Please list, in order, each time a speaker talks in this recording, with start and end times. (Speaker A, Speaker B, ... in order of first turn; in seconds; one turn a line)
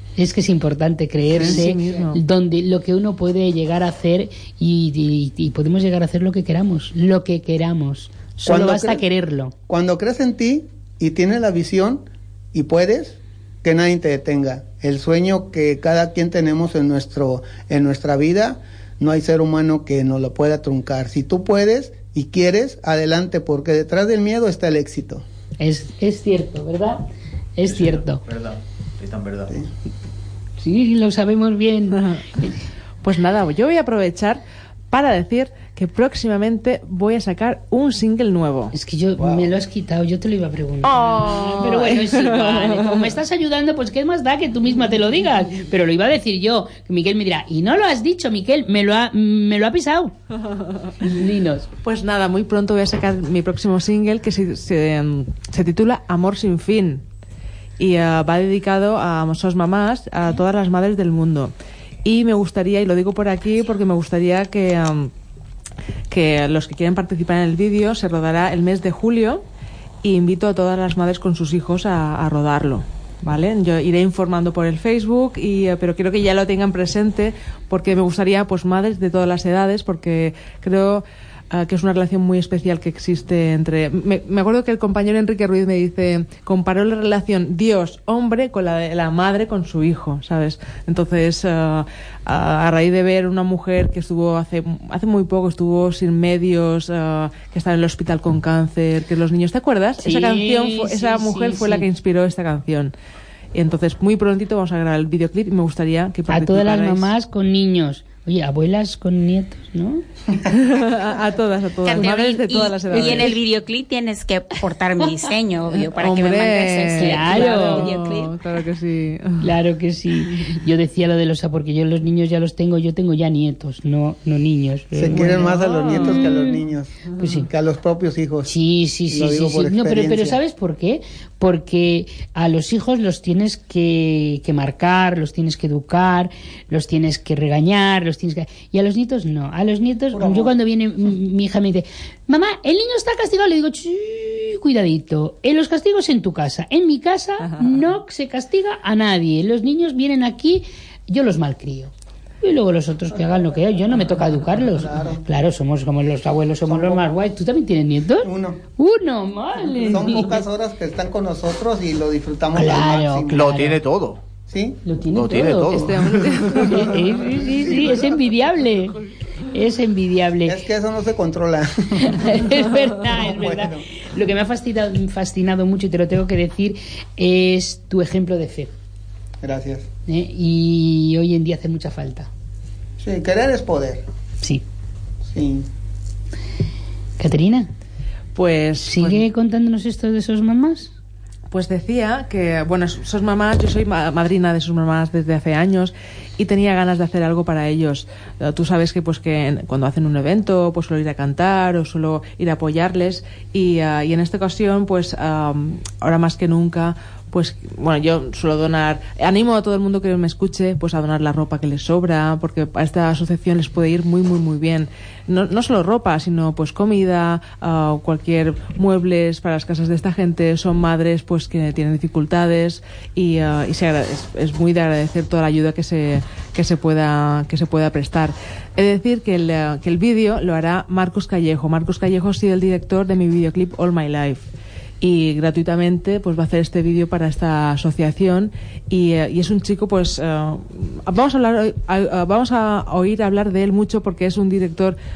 Speaker A: 0.2-9.5
Speaker B: 1.3-2.2
Speaker C: 8.4-9.0
Speaker C: 9.7-25.2
Speaker A: 25.6-27.0
Speaker A: 27.6-28.2
Speaker D: 27.7-29.5
Speaker A: 30.6-32.5
Speaker B: 33.0-38.7
Speaker A: 38.7-50.1
Speaker B: 40.8-43.1
Speaker A: 51.0-51.7
Speaker B: 51.8-57.0
Speaker B: 57.8-61.5
Speaker B: 62.0-65.1
Speaker B: 66.1-69.4
Speaker B: 70.0-102.9
Speaker A: 100.0-101.8
Speaker B: 103.5-107.1
Speaker A: 106.3-110.0
Speaker B: 110.5-113.3
Speaker E: 111.8-118.3
Speaker A: 111.9-112.3
Speaker A: 112.9-113.4
Speaker B: 115.7-119.5
Speaker A: 117.0-117.9
Speaker A: 119.4-126.5
Speaker C: 125.0-128.5
Speaker B: 125.2-126.2
Speaker A: 127.2-127.5
Speaker A: 128.5-160.4
Speaker C: 129.1-130.4
Speaker C: 140.1-140.5
Speaker C: 154.8-155.2
Speaker C: 156.7-157.0
Speaker C: 158.2-158.6
Speaker C: 159.8-163.6
Speaker A: 162.5-163.8
Speaker D: 163.3-164.2
Speaker C: 164.5-164.8
Speaker A: 164.8-166.0
Speaker D: 165.1-166.7
Speaker B: 165.7-167.1
Speaker A: 166.7-168.9
Speaker A: 169.5-170.6
Speaker C: 170.4-172.2
Speaker A: 172.0-178.7
Speaker C: 173.2-173.8
Speaker C: 179.4-179.8
Speaker A: 180.1-182.3
Speaker C: 183.0-184.0
Speaker C: 185.2-185.7
Speaker A: 187.2-187.7
Speaker B: 188.3-189.2
Speaker A: 188.8-190.9
Speaker B: 191.5-234.5
Speaker B: 235.0-245.0